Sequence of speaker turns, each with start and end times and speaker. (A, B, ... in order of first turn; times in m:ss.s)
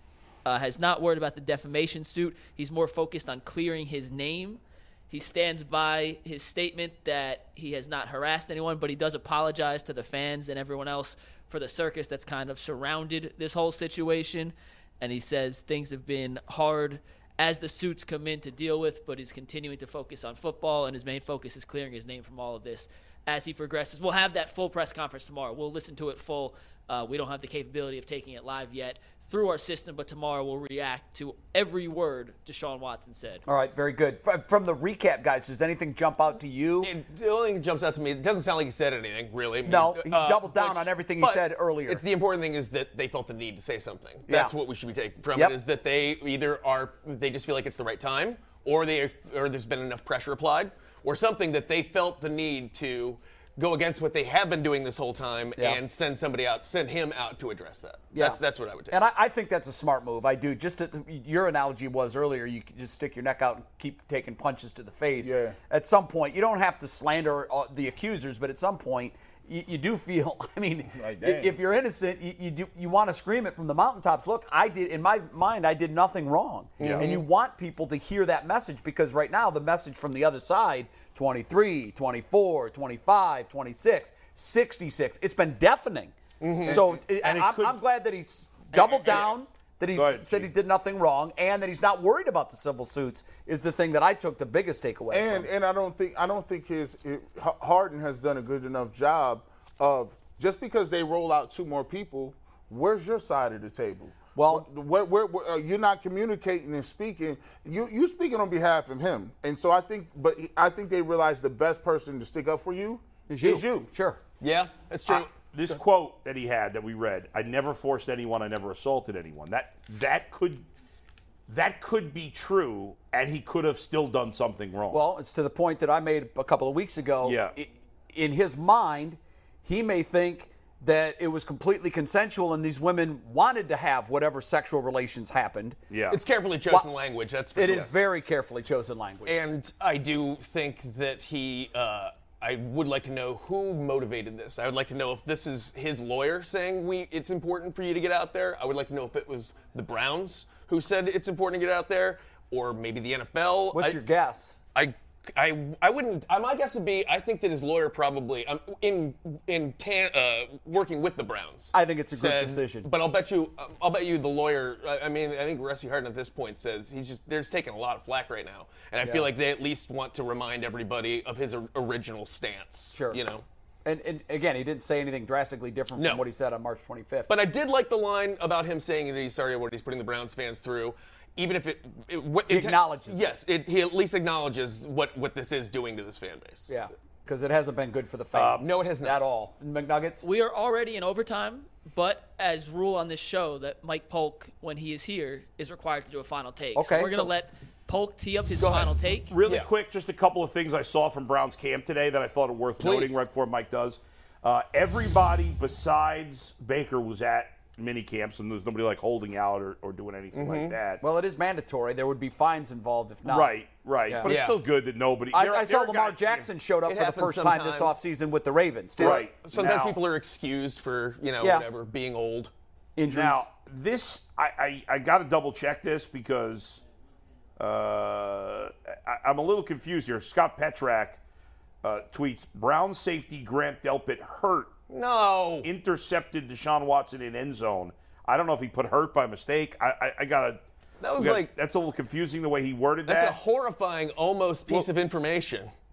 0:00.4-0:33.4 A
0:33.4-0:36.9 B
0:36.8-0:59.0 C
0:39.7-0:42.0 B
0:44.3-0:44.5 B
0:58.1-0:58.4 B
0:58.9-1:26.1 B
1:05.2-1:05.6 D
1:10.9-1:11.6 D
1:16.8-1:17.2 C
1:16.8-1:17.1 E
1:26.4-1:26.8 C
1:26.6-1:27.0 D
1:26.7-1:35.5 B
1:27.1-1:27.8 E
1:28.7-1:29.3 E
1:30.0-1:30.5 E
1:35.1-1:53.9 D
1:44.4-1:44.7 B
1:53.3-1:54.2 B
1:54.4-1:55.3 C
1:55.1-2:00.6 E
2:01.5-2:05.0 E
2:04.9-2:15.8 B
2:07.2-2:07.6 E
2:15.9-2:16.2 E
2:16.1-2:17.9 C
2:17.6-2:19.4 B
2:17.7-2:18.0 E
2:19.2-2:34.0 C
2:33.7-2:34.6 B
2:34.7-2:53.4 C
2:41.7-2:42.9 B
2:49.0-2:49.3 B
2:53.0-2:53.2 B
2:53.8-2:57.3 B
2:56.0-2:56.2 C
2:57.3-3:06.7 C
3:02.5-3:03.3 B
3:06.7-3:10.2 B
3:08.3-3:08.7 E
3:08.6-3:09.2 C
3:10.2-3:19.3 A
3:16.7-3:17.3 B
3:18.6-3:18.9 C
3:19.3-3:31.0 E
3:22.8-3:23.2 C
3:30.3-3:30.8 C
3:31.0-3:34.4 B
3:33.2-3:36.5 E
3:34.2-3:34.6 C
3:35.3-3:39.2 B
3:36.9-3:38.1 C
3:39.0-3:40.0 E
3:39.0-3:42.5 C
3:43.0-3:43.5 B
3:43.1-3:46.8 E
3:47.6-3:51.2 E
3:51.8-3:54.7 E
3:54.9-3:55.7 C
3:55.6-4:00.6 E
4:01.0-4:01.5 C
4:01.2-4:03.4 E
4:03.1-4:05.7 C